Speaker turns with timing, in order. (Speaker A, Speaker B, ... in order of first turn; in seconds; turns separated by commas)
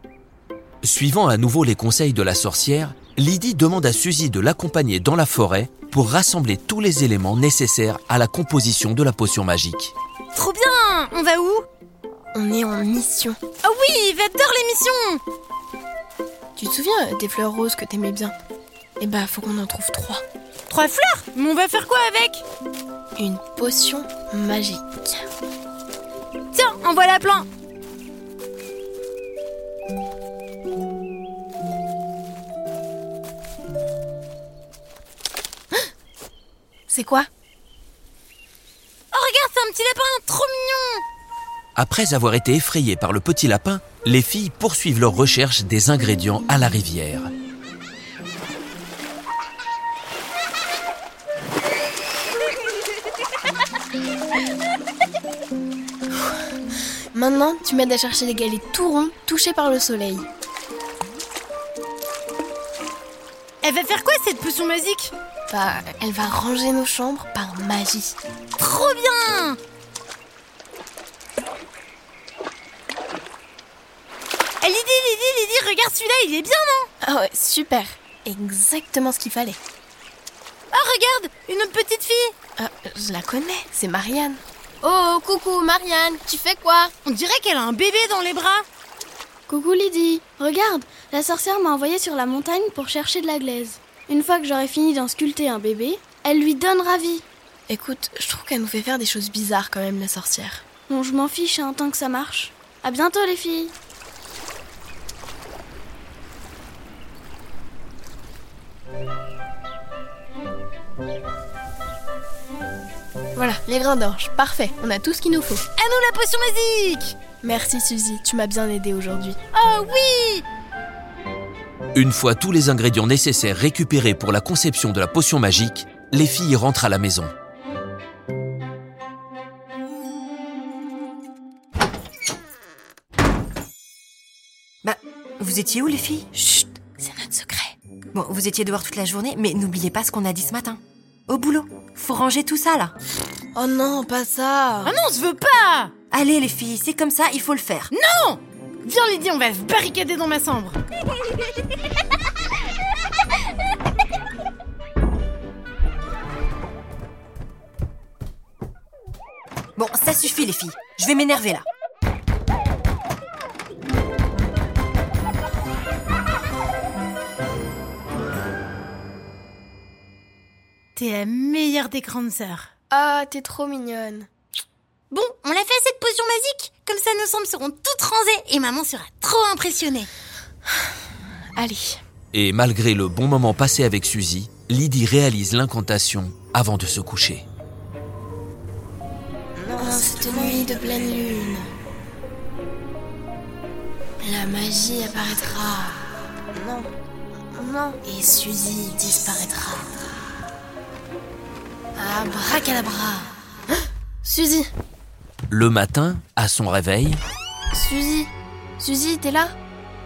Speaker A: 0.8-9.9, Speaker B: 10.3-11.6, Speaker C: 12.3-13.4, Speaker B: 13.6-15.2, Speaker C: 16.6-18.3, Speaker C: 19.0-20.2, Speaker B: 20.7-22.4, Speaker C: 23.1-25.2, Speaker B: 26.5-27.5, Speaker C: 36.9-37.3, Speaker B: 39.1-41.0, Speaker A: 41.8-47.3, Speaker C: 57.1-60.2, Speaker B: 63.6-65.1, Speaker C: 65.5-68.2, Speaker B: 68.6-69.6, Speaker B: 74.6-76.9, Speaker C: 77.0-79.6, Speaker B: 80.7-82.3, Speaker C: 82.6-86.9, Speaker B: 87.0-88.6, Speaker D: 89.5-97.2, Speaker C: 97.7-100.6, Speaker D: 100.9-103.7, Speaker C: 113.3-115.6, Speaker B: 115.8-117.2, Speaker C: 117.4-119.4, Speaker B: 119.5-120.4, Speaker A: 121.9-127.3, Speaker E: 134.8-136.3, Speaker C: 136.4-137.7, Speaker E: 138.1-142.9, Speaker C: 143.5-144.9, Speaker B: 144.8-145.9, Speaker E: 146.1-147.9, Speaker B: 147.9-150.8, Speaker E: 159.8-161.6, Speaker B: 170.9-172.7, Speaker C: 172.9-174.3, Speaker B: 175.1-180.1, Speaker C: 181.6-182.0, Speaker A: 182.3-187.5, Speaker C: 189.7-191.7, Speaker C: 194.2-196.9, Speaker C: 197.5-200.0, Speaker C: 201.9-203.3, Speaker C: 204.2-204.7, Speaker A: 205.5-207.2, Speaker C: 207.7-209.5